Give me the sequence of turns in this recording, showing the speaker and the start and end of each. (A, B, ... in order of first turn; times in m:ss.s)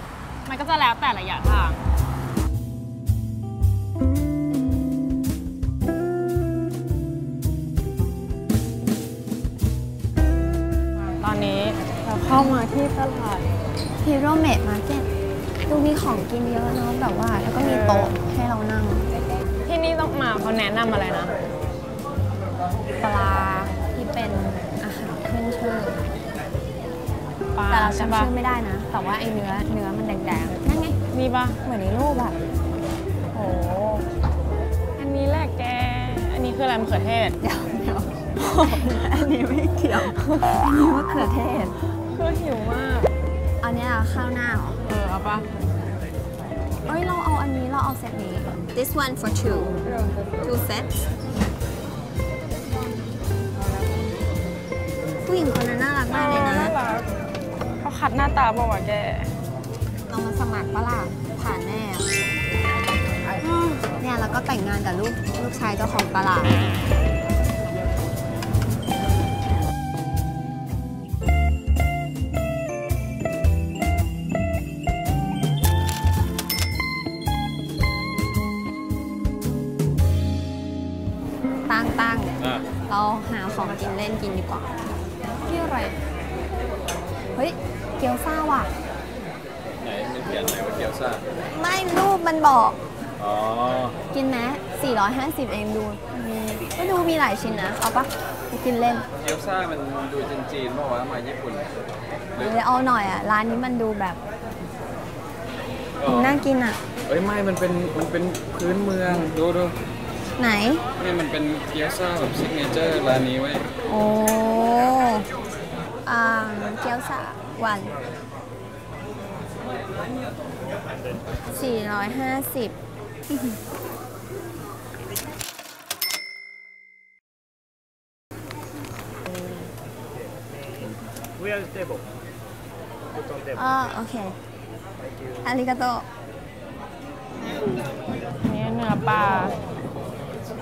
0:00.4-0:01.8 A
0:11.2-0:13.5 A
0:12.3-0:12.7 B
0:14.0-0:15.1 B
0:15.7-0:19.1 B
0:17.6-0:18.1 A
0:19.6-0:21.3 A
0:23.0-0:26.0 B
0:27.6-0:28.3 A
0:27.7-0:31.0 B
0:31.1-0:32.4 A
0:33.3-0:34.1 A
0:35.0-0:37.4 A
0:37.4-0:41.8 B
0:41.9-0:43.2 A
0:43.6-0:44.8 B
0:44.8-0:45.5 A
0:46.8-0:49.8 B
0:50.4-0:50.9 B
0:55.2-0:56.8 B
0:56.1-0:57.0 A
0:57.8-0:59.3 A
1:00.1-1:02.1 B
1:03.4-1:03.8 A
1:04.0-1:06.7 B
1:21.7-1:24.7 B
1:22.4-1:22.7 C
1:25.4-1:26.0 B
1:27.3-1:28.7 B
1:29.8-1:31.2 C
1:31.5-1:32.8 B
1:33.2-1:34.0 C
1:34.1-1:39.1 B
1:39.2-1:41.7 C
1:42.4-1:44.2 B
1:46.0-1:46.4 C
1:46.0-1:46.8 B
1:47.1-1:49.8 C
1:50.4-1:50.9 B
1:51.0-1:53.7 C
1:53.9-1:55.3 B
1:56.0-1:58.0 B
2:01.5-2:02.8 B
2:13.5-2:14.4 B
2:15.4-2:16.1 B
2:18.4-2:19.6 A